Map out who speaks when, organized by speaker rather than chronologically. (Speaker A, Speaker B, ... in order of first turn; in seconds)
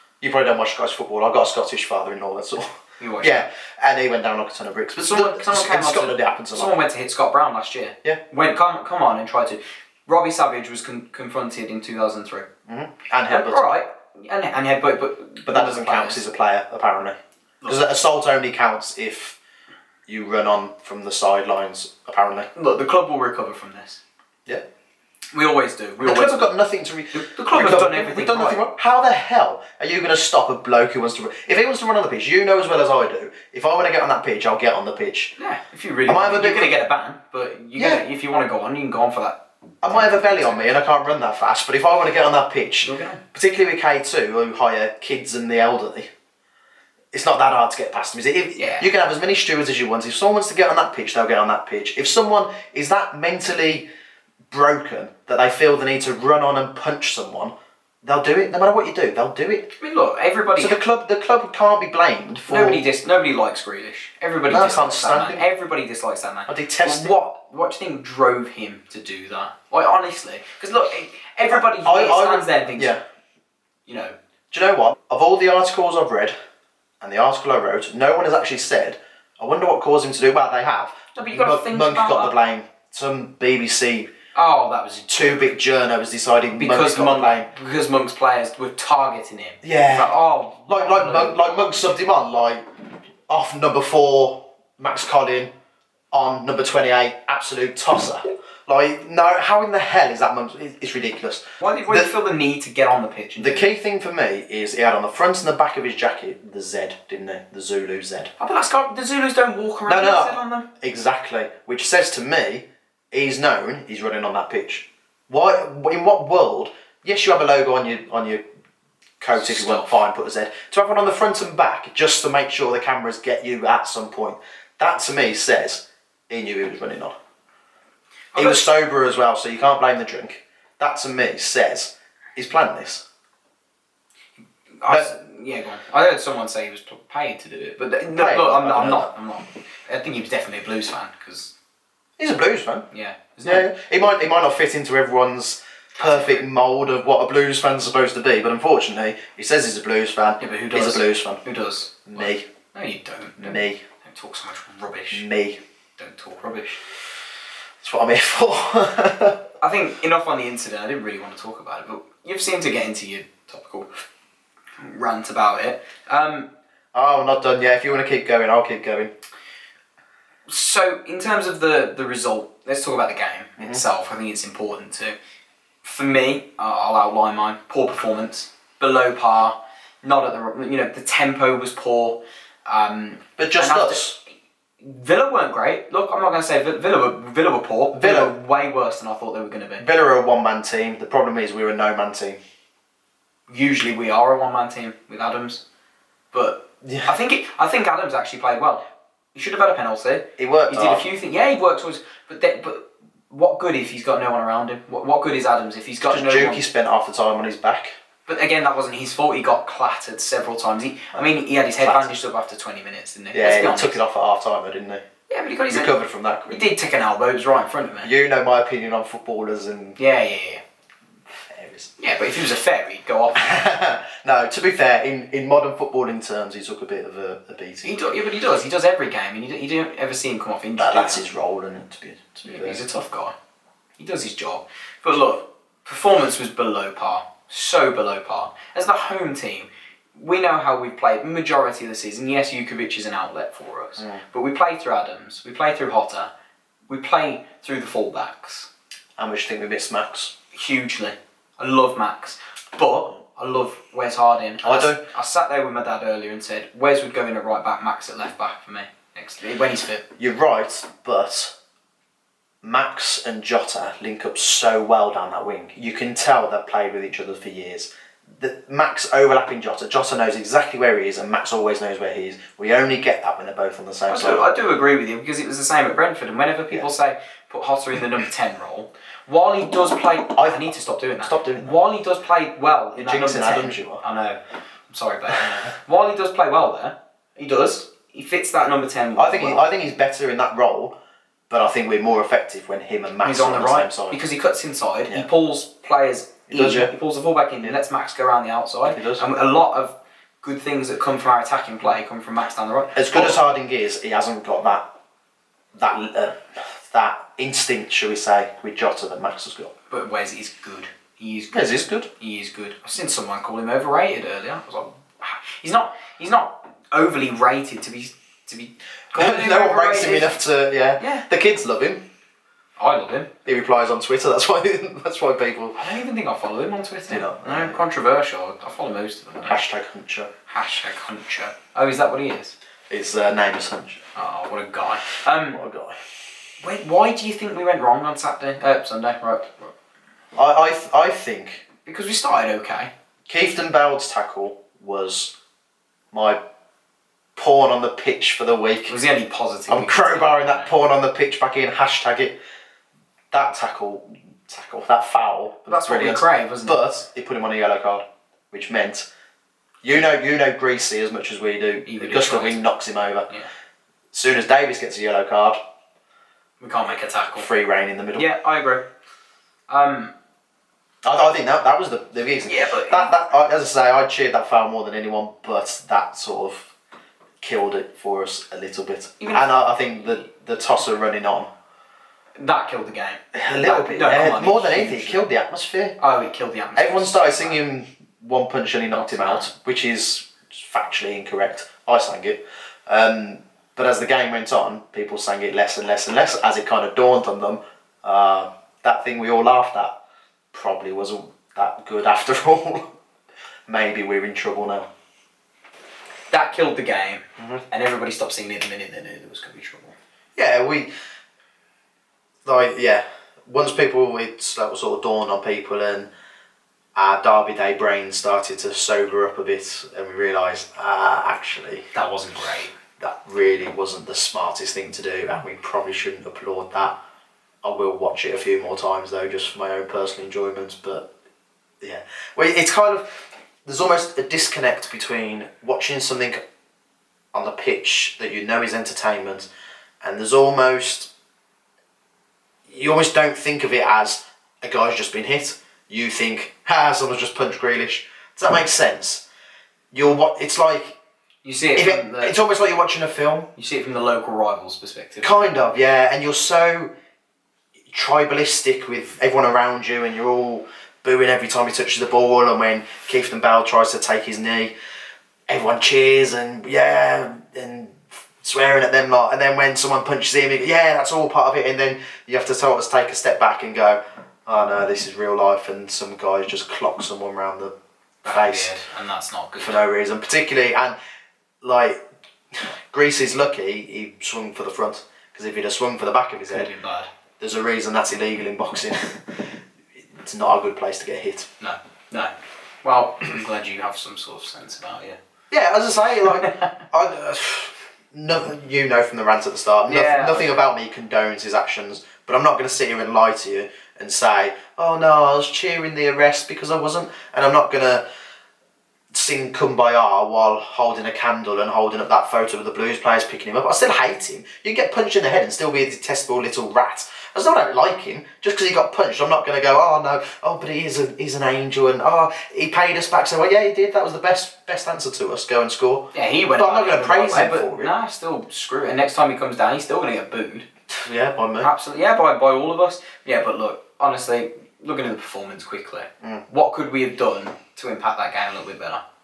Speaker A: 0.2-6.8, 12.7-13.7, 15.5-19.4, 20.1-22.5, 26.0-35.3, 36.1-36.8, 37.8-38.0, 39.8-46.1, 47.1-53.9, 54.5-59.7, 60.6-62.8, 64.5-65.4, 66.5-67.2, 71.5-73.0, 74.5-76.3, 77.0-84.1, 85.1-87.5, 89.6-90.1, 90.7-92.7, 93.3-95.5, 96.1-102.1, 103.4-108.3, 109.9-118.4, 119.2-127.2, 128.4-133.0, 134.9-135.1, 138.2-139.1, 142.2-142.9, 143.4-151.4, 152.1-152.4, 153.4-153.8, 155.1-155.6, 157.8-159.4, 166.9-169.1, 173.6-173.8, 183.4-184.2, 187.9-188.3, 189.8-192.4, 196.8-197.1, 200.4-201.1, 206.1-207.9, 211.1-212.2, 213.3-215.0, 215.7-216.7, 218.0-220.0, 221.5-221.9, 223.3-228.2, 230.8-232.8, 249.2-250.3, 254.6-255.0, 260.2-261.5, 262.6-274.5, 280.4-280.7, 281.2-281.8, 283.0-284.0, 289.2-290.9, 291.5-294.2, 296.5-296.9, 298.9-299.2, 302.9-304.9, 305.7-309.7, 311.5-312.1, 319.1-322.0, 323.4-325.8, 327.1-327.8, 329.5-330.3, 332.9-334.1, 335.5-336.0, 340.4-341.6, 343.3-345.3, 346.1-346.4, 347.4-348.9, 349.7-352.4, 353.3-359.1, 359.8-363.3, 364.1-365.6, 367.3-368.3, 371.0-376.7, 377.4-381.5, 383.3-386.0, 386.8-400.0, 400.5-402.9, 403.7-404.9, 410.4-410.9, 412.4-416.1, 416.9-421.9, 423.0-427.0, 427.6-431.1, 431.8-436.4, 437.3-439.5, 440.0-441.1, 442.7-449.2, 449.9-451.0, 451.8-453.5, 455.2-456.9, 457.9-464.7, 465.5-477.7, 478.3-478.7, 479.6-480.9, 481.6-482.0, 482.5-486.7, 487.4-489.5, 490.1-491.5, 495.5-508.0, 509.1-527.9, 530.9-531.7
Speaker B: 3.0-3.5, 5.0-12.5, 13.3-16.2, 22.6-24.0, 25.3-26.6, 27.1-28.6, 35.4-40.7, 42.8-43.2, 48.6-48.9, 59.8-60.8, 62.5-72.9, 73.9-74.2, 81.2-82.3, 84.3-85.4, 86.6-92.0, 101.6-103.7, 108.4-110.7, 119.3-120.0, 128.3-128.7, 134.8-141.5, 142.9-143.7, 146.0-146.5, 150.4-155.3, 156.0-156.8, 159.6-163.9, 164.8-166.5, 170.5-175.2, 175.8-184.0, 184.8-189.9, 193.5-195.6, 196.3-198.8, 199.3-206.6, 208.3-214.0, 215.3-216.0, 216.5-218.1, 220.0-220.6, 222.0-223.6, 227.8-231.2, 232.4-233.3, 234.0-246.3, 246.9-248.7, 250.5-260.1, 274.1-289.6, 293.2-303.4, 309.9-320.4, 321.0-321.3, 322.8-323.3, 325.8-329.6, 330.5-332.6, 334.1-335.6, 336.6-339.7, 341.9-342.9, 348.9-350.7, 355.7-356.8, 361.9-362.6, 366.6-367.5, 368.2-368.9, 369.7-370.1, 372.5-373.1, 379.2-379.5, 382.4-385.3, 386.0-387.6, 388.9-389.5, 406.3-409.9, 421.9-422.8, 451.4-452.4, 453.6-455.3, 478.2-479.8, 486.5-487.1, 491.6-492.3, 492.8-495.2, 496.4-496.7, 499.9-500.6, 526.1-530.7, 531.6-539.0